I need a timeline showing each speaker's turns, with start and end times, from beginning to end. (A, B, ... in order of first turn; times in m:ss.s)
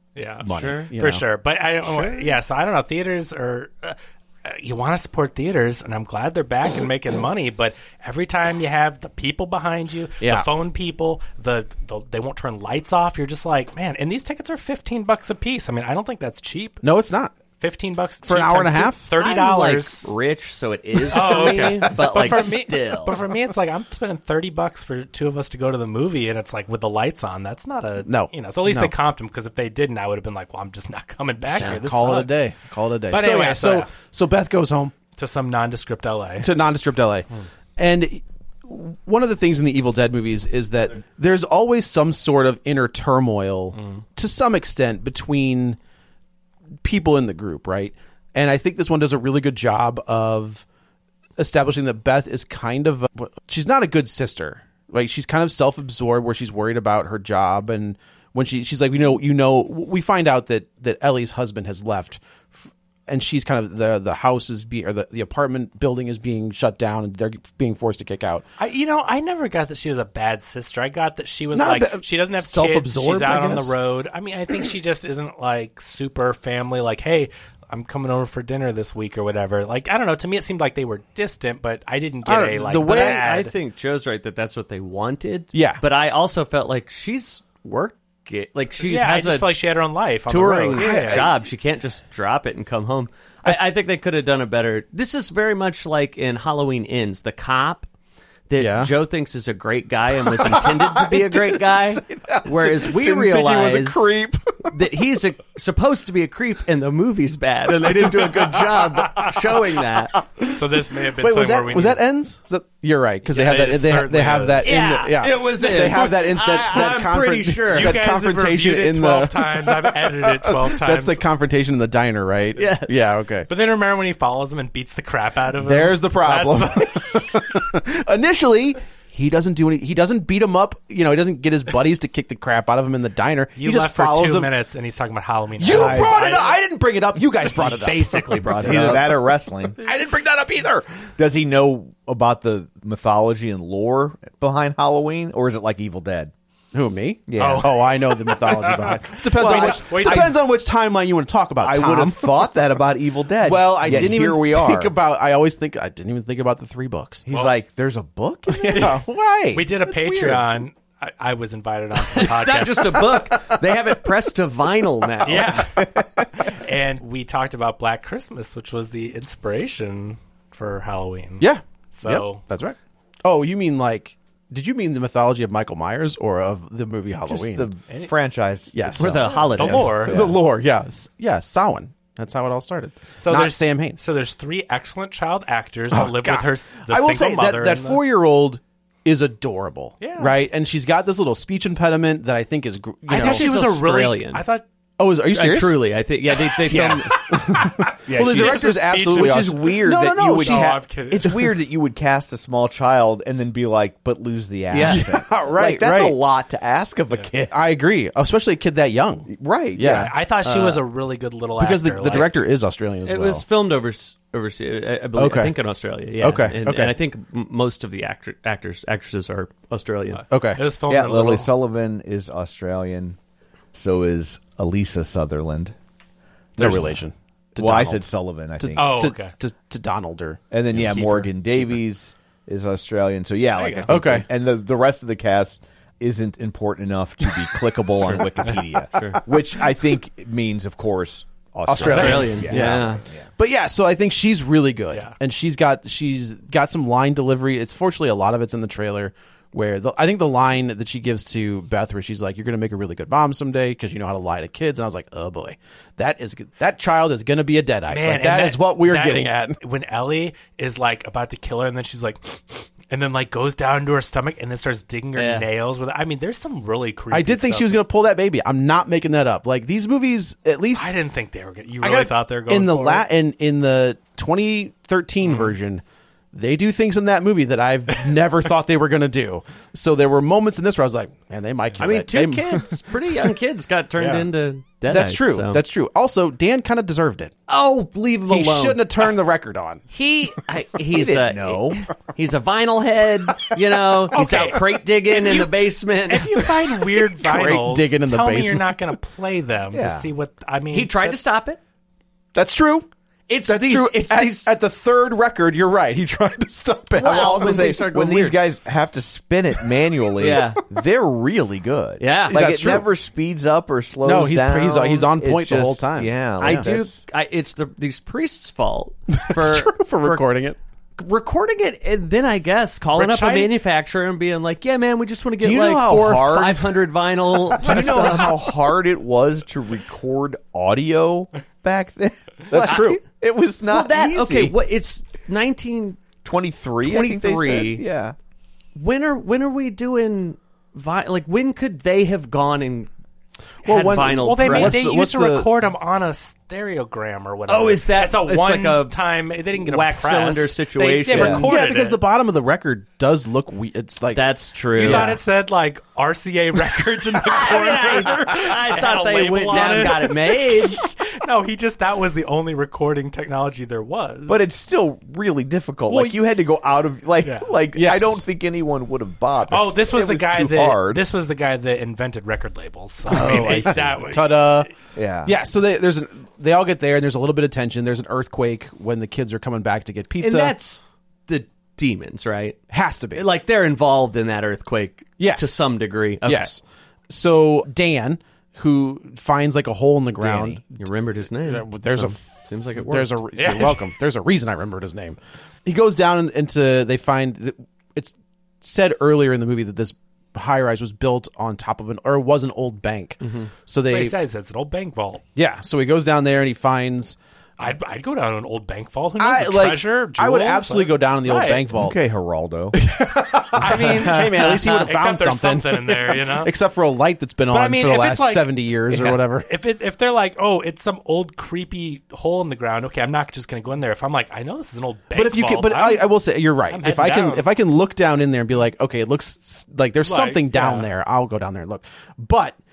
0:00.2-0:16.8 A
0:00.4-0:01.1 B
0:00.5-0:00.9 C
0:00.9-0:01.2 D
0:01.8-0:02.4 C
0:10.2-0:10.5 D
0:16.8-0:17.3 D
0:17.6-0:20.1 A
0:18.2-0:19.1 D
0:19.2-0:23.2 C
0:21.0-0:22.4 D
0:21.1-0:32.4 A
0:28.0-0:28.9 D
0:31.5-0:34.9 D
0:33.1-0:33.9 A
0:35.2-0:36.5 A
0:36.4-0:37.2 D
0:37.8-0:45.8 D
0:43.8-0:44.0 A
0:46.8-0:50.6 D
0:51.4-1:08.4 D
1:08.6-1:23.5 A
1:11.5-1:13.8 D
1:22.2-1:23.3 D
1:22.8-1:29.6 C
1:25.5-1:25.8 D
1:28.8-1:31.3 A
1:30.3-1:37.9 C
1:30.7-1:31.4 D
1:38.5-1:44.1 C
1:38.6-1:38.9 D
1:40.2-1:44.6 D
1:44.6-1:50.2 C
1:47.8-1:48.5 D
1:50.5-1:52.0 A
1:51.2-2:03.5 D
1:53.2-1:54.7 A
1:54.6-1:58.0 C
1:57.7-2:01.2 A
2:02.6-2:03.1 C
2:03.5-2:07.6 A
2:05.6-2:14.5 D
2:13.6-2:16.6 A
2:15.6-2:19.2 D
2:15.6-2:16.3 B
2:17.4-2:18.9 A
2:17.7-2:18.9 C
2:17.9-2:19.8 B
2:19.8-2:21.1 D
2:21.2-2:26.3 B
2:26.7-2:32.3 D
2:27.3-2:27.8 B
2:27.4-2:30.4 A
2:29.3-2:30.4 B
2:31.6-2:34.9 B
2:33.4-2:37.2 D
2:37.2-2:39.0 B
2:38.5-2:40.6 D
2:38.7-2:43.2 A
2:42.1-2:45.6 C
2:45.2-2:52.4 A
2:51.4-2:57.7 D
2:57.2-3:00.4 B
2:58.7-3:04.0 D
2:59.0-3:00.0 C
2:59.5-3:00.2 A
3:03.2-3:08.0 A
3:05.9-3:13.5 D
3:10.0-3:10.4 A
3:13.1-3:14.6 A
3:13.1-3:14.4 C
3:15.0-3:15.8 D
3:15.3-3:17.1 C
3:16.6-3:20.8 D
3:16.7-3:17.6 A
3:18.0-3:27.7 B
3:18.2-3:19.5 A
3:20.3-3:21.5 A
3:24.7-3:25.1 C
3:24.8-3:26.2 D
3:27.5-3:30.1 D
3:29.3-3:30.1 B
3:29.8-3:32.4 A
3:30.4-3:30.8 C
3:31.6-3:33.4 D
3:33.0-3:40.2 C
3:35.2-3:35.6 D
3:36.2-3:36.9 D
3:40.2-3:41.5 A
3:40.3-3:40.6 D
3:40.9-3:43.2 B
3:43.7-3:45.8 B
3:46.6-3:47.0 B
3:46.6-3:48.1 D
3:47.6-3:48.9 B
3:48.6-3:50.4 D
3:48.8-3:49.3 A
3:50.5-4:03.3 B
3:50.8-3:51.3 A
3:53.6-3:53.9 A
3:53.9-3:54.2 D
3:58.1-3:59.2 C
4:01.7-4:19.6 D
4:01.8-4:03.0 C
4:01.8-4:02.5 A
4:17.9-4:27.8 A
4:25.1-4:25.5 C
4:27.1-4:30.9 D
4:30.7-4:33.0 A
4:31.8-4:42.8 D
4:35.2-4:35.5 A
4:41.8-4:45.6 C
4:44.0-4:44.3 A
4:44.9-4:47.3 D
4:47.5-4:48.8 C
4:48.3-4:49.8 D
4:49.9-4:56.4 C
4:50.9-4:51.9 B
4:54.1-4:55.5 A
4:56.1-5:01.2 A
4:57.2-4:58.9 D
4:59.7-5:00.1 B
5:00.7-5:01.6 C
5:02.3-5:02.9 D
5:03.3-5:04.5 C
5:03.5-5:07.6 D
5:06.9-5:08.4 C
5:07.0-5:17.0 B
5:10.2-5:10.6 C
5:12.0-5:12.4 C
5:12.3-5:12.9 D
5:14.0-5:16.7 D
5:16.4-5:20.2 C
5:19.3-5:20.6 D
5:21.0-5:28.4 C
5:23.0-5:23.5 A
5:25.4-5:27.0 B
5:27.6-5:34.6 B
5:32.5-5:33.0 D
5:32.7-5:32.9 C
5:33.7-5:36.0 C
5:36.2-5:38.2 B
5:36.8-5:37.8 C
5:38.8-5:42.9 C
5:43.6-5:44.9 C
5:43.6-5:45.5 D
5:44.2-5:52.0 A
5:47.5-5:48.9 C
5:49.5-5:51.5 C
5:51.1-5:51.4 B
5:51.1-5:55.2 D
5:54.1-5:55.1 C
5:54.8-6:04.5 A
5:57.2-6:00.8 C
6:04.3-6:11.0 B
6:05.9-6:06.2 D
6:07.2-6:07.5 A
6:07.7-6:08.2 D
6:09.5-6:14.7 A
6:13.1-6:14.0 B
6:13.1-6:14.7 D
6:14.9-6:15.3 B
6:15.2-6:20.6 D
6:20.2-6:22.6 C
6:22.7-6:23.2 D
6:23.1-6:26.5 C
6:25.2-6:25.6 D
6:26.2-6:30.6 D
6:30.2-6:30.6 B
6:30.7-6:33.2 C
6:31.4-6:44.1 D
6:33.4-6:33.8 A
6:43.2-6:43.5 C
6:43.8-6:45.2 A
6:45.3-6:47.2 D
6:47.6-6:51.7 A
6:49.2-6:52.0 D
6:51.7-6:52.8 B
6:52.7-6:59.5 D
6:53.6-6:56.5 A
6:57.5-7:06.1 A
7:05.1-7:12.6 D
7:06.7-7:07.5 A
7:10.0-7:10.9 A